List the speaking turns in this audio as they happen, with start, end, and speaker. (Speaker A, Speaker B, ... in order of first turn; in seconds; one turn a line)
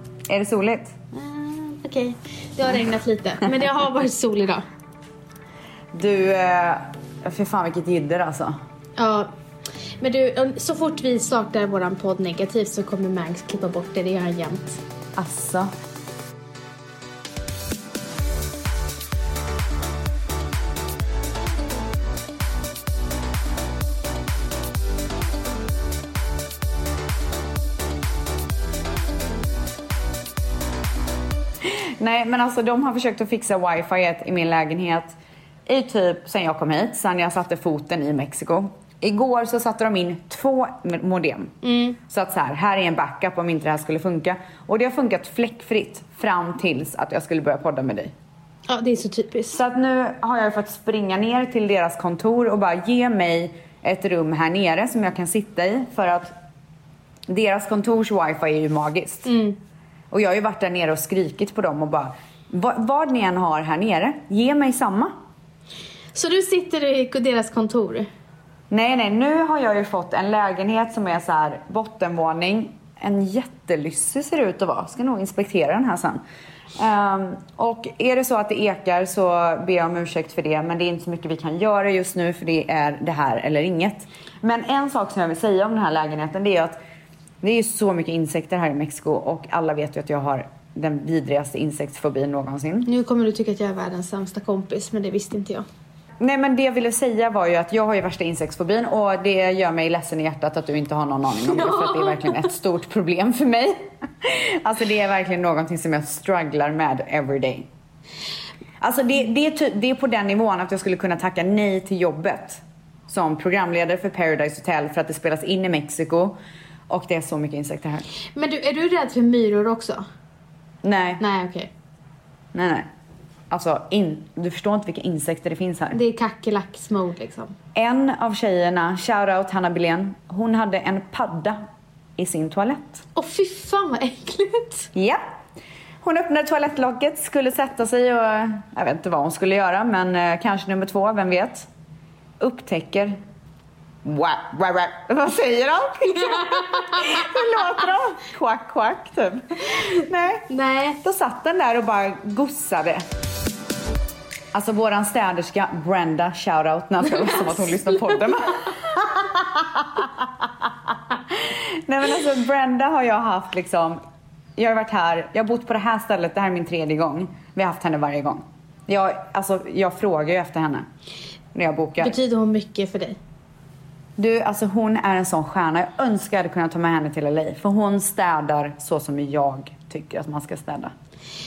Speaker A: 0.3-0.9
Speaker B: 1.1-4.6
Speaker A: 5.9-8.5
Speaker B: 9.0-9.3
Speaker B: 10.0-14.8
Speaker A: 15.2-15.7
Speaker A: 31.6-41.5
Speaker B: 41.6-42.0
Speaker A: 42.1-48.1
Speaker B: 48.7-49.5
Speaker A: 49.5-56.3
Speaker A: 57.3-59.3
Speaker B: 59.2-59.6
Speaker A: 60.1-65.1
Speaker B: 66.1-68.1
Speaker A: 68.7-76.2
Speaker A: 76.8-86.8
Speaker A: 87.4-92.9
Speaker B: 92.8-95.6
Speaker A: 96.2-107.7
Speaker B: 101.4-102.4
Speaker A: 108.8-116.4
Speaker A: 116.9-118.0
Speaker B: 118.3-120.0
Speaker A: 120.8-121.2
Speaker B: 121.2-121.7
Speaker A: 122.5-122.9
Speaker A: 123.5-126.0
Speaker B: 125.9-127.5
Speaker A: 127.7-131.6
Speaker A: 132.2-133.0
Speaker B: 133.1-134.9
Speaker A: 134.9-135.2
Speaker A: 136.0-141.7
Speaker A: 142.4-143.2
Speaker A: 144.0-150.5
Speaker B: 146.1-147.6
Speaker B: 150.5-151.0
Speaker A: 151.0-153.0
Speaker A: 154.5-160.7
Speaker B: 157.0-158.7
Speaker A: 161.3-164.0
Speaker A: 164.6-170.8
Speaker A: 171.5-172.1
Speaker B: 172.0-173.2
Speaker A: 174.2-180.9